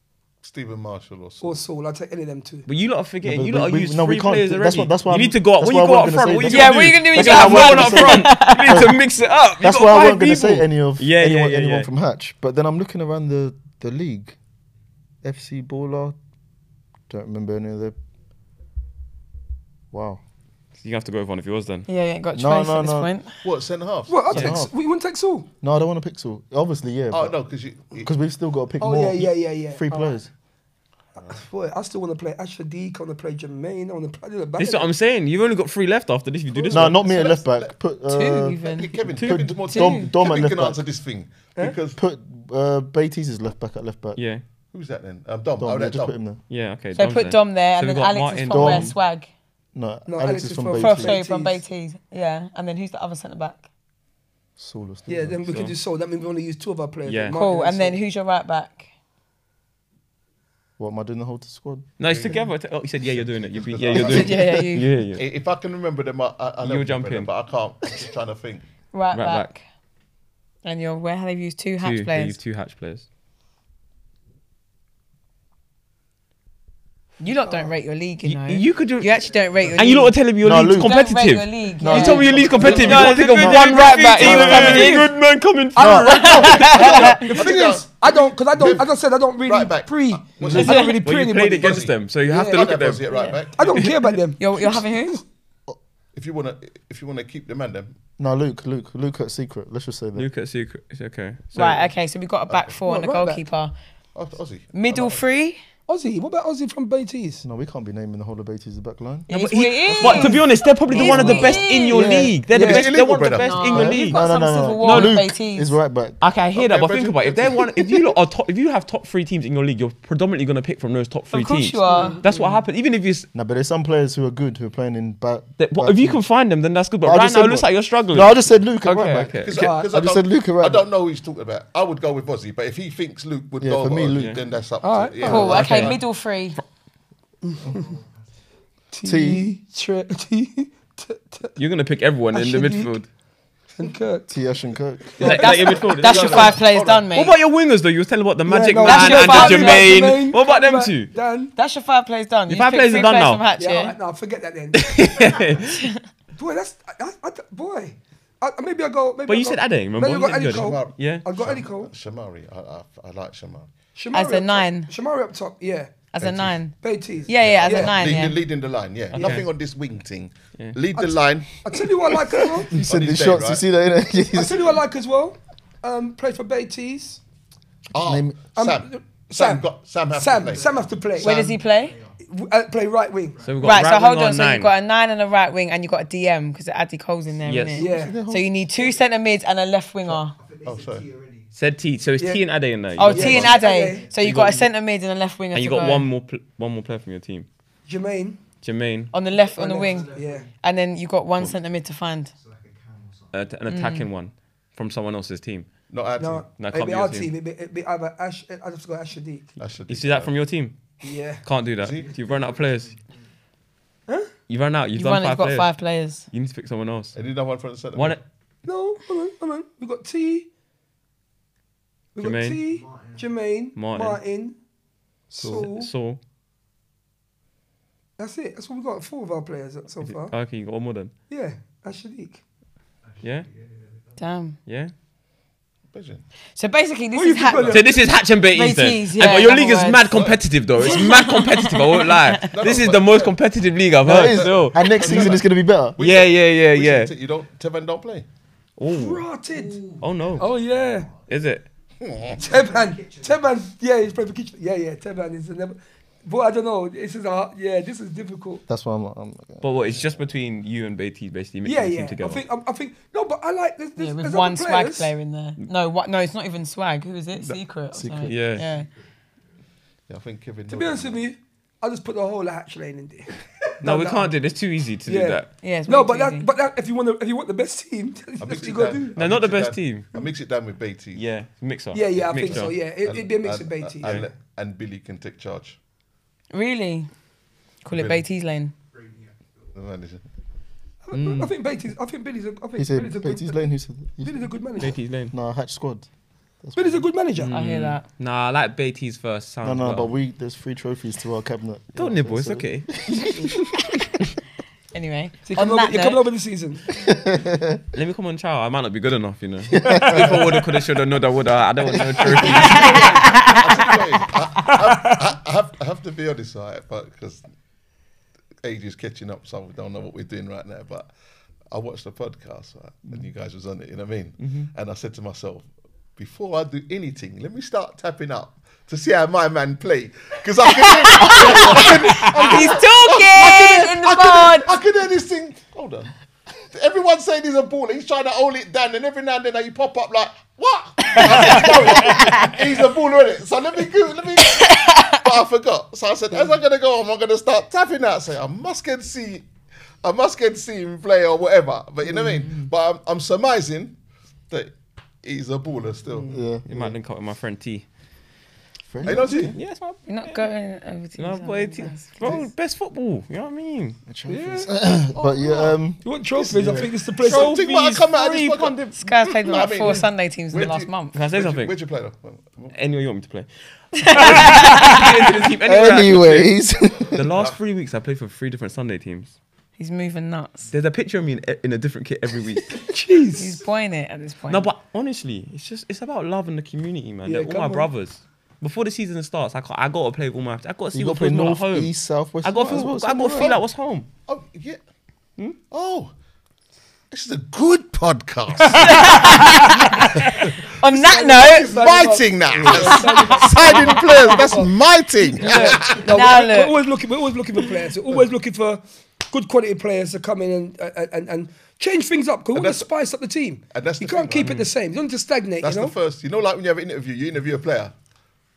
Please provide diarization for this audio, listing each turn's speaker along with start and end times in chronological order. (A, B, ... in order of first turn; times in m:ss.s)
0:00.4-0:01.6 A
0:01.4-0:02.7 B
0:02.6-0:11.9 C
0:03.2-0:09.0 D
0:06.4-0:08.9 E
0:09.6-0:14.4 D
0:15.2-0:16.1 D
0:17.1-0:18.0 D
0:19.9-0:20.2 D
0:20.8-0:21.9 C
0:21.9-0:23.4 E
0:22.3-0:23.1 D
0:23.4-0:24.6 A
0:24.1-0:25.5 B
0:24.3-0:24.7 D
0:25.6-0:27.4 D
0:27.1-0:28.1 A
0:28.0-0:30.3 D
0:28.8-0:30.1 B
0:31.2-0:34.9 B
0:34.6-0:37.0 C
0:36.5-0:36.8 B
0:36.7-0:37.7 A
0:36.7-0:40.8 D
0:38.1-0:39.0 E
0:38.6-0:42.0 A
0:39.1-0:39.5 C
0:39.5-0:40.1 E
0:41.9-0:44.2 D
0:44.2-0:44.4 C
0:44.7-0:46.2 A
0:45.6-0:46.4 D
0:46.5-0:49.0 C
0:46.9-0:49.3 E
0:48.5-0:48.9 D
0:49.7-0:51.2 D
0:50.1-0:51.6 B
0:50.7-0:53.6 E
0:54.6-0:55.4 D
0:55.0-0:58.0 B
0:55.5-0:55.8 C
0:57.0-0:57.4 C
0:57.3-0:58.8 E
1:00.8-1:01.9 D
1:02.0-1:05.2 C
1:02.0-1:02.4 A
1:03.0-1:04.4 A
1:03.9-1:04.9 E
1:05.2-1:08.6 A
1:06.6-1:07.3 C
1:08.9-1:09.6 E
1:09.1-1:09.5 C
1:10.6-1:12.4 E
1:11.8-1:13.0 C
1:17.2-1:20.2 E
1:18.2-1:27.2 C
1:19.1-1:19.9 F
1:20.4-1:21.0 D
1:20.7-1:25.1 E
1:21.8-1:25.1 D
1:22.6-1:25.1 B
1:25.7-1:32.9 B
1:25.8-1:26.3 D
1:26.0-1:27.2 E
1:26.3-1:31.0 A
1:30.4-1:30.6 D
1:30.6-1:33.1 C
1:30.6-1:31.0 E
1:31.6-1:33.9 A
1:33.1-1:33.4 E
1:33.6-1:34.9 B
1:33.6-1:33.9 C
1:34.4-1:35.2 E
1:36.1-1:37.9 A
1:38.2-1:40.3 D
1:40.1-1:41.9 C
1:41.5-1:43.7 E
1:42.5-1:42.8 A
1:42.8-1:43.4 B
1:44.1-1:45.2 A
1:44.7-1:45.6 E
1:45.9-1:47.4 B
1:47.4-1:49.3 D
1:49.3-1:52.3 E
1:49.3-1:54.3 C
1:50.0-1:52.9 B
1:51.0-1:51.7 A
1:52.5-1:54.0 A
1:53.4-1:55.8 E
1:53.7-1:56.2 D
1:54.8-1:55.2 C
1:56.2-2:03.3 C
1:56.5-1:58.1 A
2:01.3-2:02.2 E
2:01.9-2:02.6 B
2:03.3-2:06.2 D
2:05.6-2:09.6 C
2:07.0-2:10.8 D
2:09.4-2:16.0 A
2:09.5-2:09.9 B
2:13.6-2:14.4 D
2:14.1-2:14.4 C
2:14.8-2:15.8 B
2:15.2-2:16.6 E
2:15.5-2:16.0 C
2:17.4-2:17.8 B
2:17.6-2:18.4 F
2:18.9-2:21.6 B
2:19.0-2:19.4 D
2:21.6-2:23.1 C
2:22.3-2:22.9 B
2:23.8-2:24.3 B
2:24.3-2:25.5 D
2:25.2-2:31.1 C
2:25.2-2:25.9 B
2:25.2-2:27.4 E
2:25.9-2:27.1 A
2:28.4-2:31.5 B
2:28.7-2:30.0 E
2:31.5-2:34.0 E
2:32.5-2:33.4 C
2:33.6-2:35.0 B
2:34.7-2:35.9 C
2:35.6-2:36.0 E
2:36.3-2:41.9 B
2:39.3-2:41.2 C
2:40.4-2:43.7 A
2:43.9-2:46.1 B
2:44.1-2:44.9 E
2:46.1-2:48.4 E
2:46.2-2:46.7 A
2:46.7-2:48.0 B
2:47.4-2:51.6 A
2:49.1-2:49.4 B
2:49.1-2:49.5 C
2:50.9-2:52.8 B
2:52.7-2:54.7 D
2:52.7-2:53.6 A
2:54.3-2:57.2 B
2:57.9-3:01.4 A
2:57.9-2:58.4 D
2:58.5-3:01.6 B
3:00.3-3:02.2 F
3:01.2-3:01.9 E
3:02.2-3:03.4 B
3:03.3-3:03.9 F
3:03.4-3:04.7 C
3:03.6-3:10.3 E
3:07.4-3:07.9 C
3:07.8-3:08.2 B
3:07.8-3:08.5 D
3:10.1-3:11.6 F
3:10.6-3:11.1 A
3:11.5-3:13.6 C
3:12.2-3:12.4 B
3:13.0-3:16.1 E
3:13.0-3:14.0 B
3:13.4-3:14.6 F
3:14.2-3:14.7 C
3:15.5-3:17.5 C
3:17.8-3:18.4 B
3:18.6-3:19.1 C
3:19.1-3:22.3 E
3:19.5-3:20.5 B
3:19.8-3:20.6 F
3:22.3-3:23.6 F
3:23.3-3:25.8 C
3:23.7-3:24.1 E
3:25.9-3:26.6 A
3:26.2-3:29.5 B
3:26.6-3:27.3 C
3:29.6-3:30.4 A
3:29.9-3:30.8 C
3:31.0-3:31.4 B
3:31.4-3:32.9 C
3:31.8-3:32.1 A
3:31.9-3:33.3 F
3:34.5-3:37.2 C
3:35.0-3:36.3 E
3:37.1-3:38.2 A
3:37.9-3:38.2 C
3:38.6-3:40.5 B
3:42.1-3:44.5 B
3:42.2-3:42.6 C
3:42.6-3:43.4 F
3:43.7-3:44.2 C
3:45.3-3:45.9 B
3:45.4-3:46.2 C
3:48.2-3:50.4 B
3:50.0-3:51.1 C
3:51.3-3:52.4 B
3:53.0-3:54.2 F
3:53.2-3:53.5 C
3:54.2-3:54.6 E
3:54.6-3:54.9 C
3:55.9-3:56.2 A
3:56.6-4:00.2 E
3:57.1-3:57.9 B
3:57.7-4:05.4 C
4:00.1-4:00.4 A
4:00.8-4:02.4 E
4:02.4-4:03.4 A
4:04.0-4:06.0 D
4:04.0-4:08.3 A
4:06.0-4:07.1 C
4:08.8-4:09.2 C
4:08.9-4:09.8 B
4:09.5-4:11.5 F
4:10.0-4:10.5 C
4:10.4-4:11.1 B
4:11.3-4:11.6 C
4:12.0-4:12.4 A
4:12.2-4:13.5 F
4:12.4-4:18.6 B
4:18.7-4:19.7 D
4:19.6-4:22.4 C
4:21.6-4:25.1 B
4:24.0-4:28.9 E
4:27.9-4:28.4 D
4:28.2-4:28.6 C
4:28.5-4:29.1 F
4:30.1-4:31.2 A
4:30.7-4:34.3 B
4:33.8-4:35.5 C
4:35.0-4:39.1 B
4:35.6-4:36.5 E
4:38.4-4:41.2 A
4:39.2-4:40.1 C
4:41.1-4:42.8 C
4:41.9-4:44.2 B
4:42.2-4:45.8 A
4:46.5-4:47.1 E
4:47.8-4:48.7 E
4:47.9-4:48.2 A
4:48.9-4:49.8 F
4:49.7-4:50.2 A
4:51.0-4:53.6 B
4:51.1-4:51.5 C
4:52.8-4:54.5 D
4:54.2-4:55.0 B
4:54.8-4:55.3 C
4:55.3-4:56.1 D
4:56.6-4:57.1 D
4:56.8-4:57.5 B
4:57.4-5:00.1 C
4:57.5-4:58.0 E
4:59.6-5:03.7 D
5:01.9-5:03.6 C
5:04.9-5:06.2 E
5:05.4-5:06.9 B
5:06.9-5:07.8 D
5:07.9-5:13.6 C
5:09.7-5:10.6 D
5:11.9-5:12.7 D
5:12.4-5:17.4 A
5:12.6-5:13.9 E
5:14.6-5:15.2 B
5:18.6-5:21.1 A
5:21.7-5:36.1 A
5:24.4-5:24.7 C
5:30.8-5:34.7 E
5:36.7-5:49.5 A
5:41.4-5:42.5 E
5:44.4-5:45.2 E
5:50.0-5:54.0 A
5:54.5-5:56.4 A
5:56.1-5:56.4 B
5:56.3-5:56.9 D
5:56.6-5:57.9 C
5:58.9-5:59.5 D
5:59.0-5:59.6 A
5:59.1-6:00.5 C
6:00.0-6:02.1 E
6:01.2-6:04.0 C
6:04.1-6:06.9 D
6:04.3-6:04.7 B
6:06.0-6:07.6 B
6:07.2-6:09.0 C
6:07.2-6:12.7 A
6:08.9-6:11.1 E
6:11.1-6:11.8 C
6:12.7-6:16.6 C
6:14.0-6:15.0 E
6:15.6-6:17.2 D
6:17.1-6:19.3 C
6:17.3-6:17.5 A
6:19.8-6:20.7 E
6:20.7-6:22.9 C
6:22.9-6:23.6 B
6:23.3-6:24.7 E
6:24.5-6:34.1 C
6:27.2-6:27.9 B
6:30.9-6:33.6 D
6:33.3-6:33.6 A
6:34.3-6:34.8 A
6:35.7-6:36.1 A
6:37.1-6:39.4 A
6:38.7-6:41.8 E
6:40.1-6:40.7 A
6:40.8-6:44.7 B
6:41.4-6:46.1 A
6:42.7-6:43.8 E
6:45.2-6:56.0 B
6:45.9-6:46.8 E
6:52.5-6:52.9 A
6:53.7-6:54.6 A
6:55.6-6:57.9 A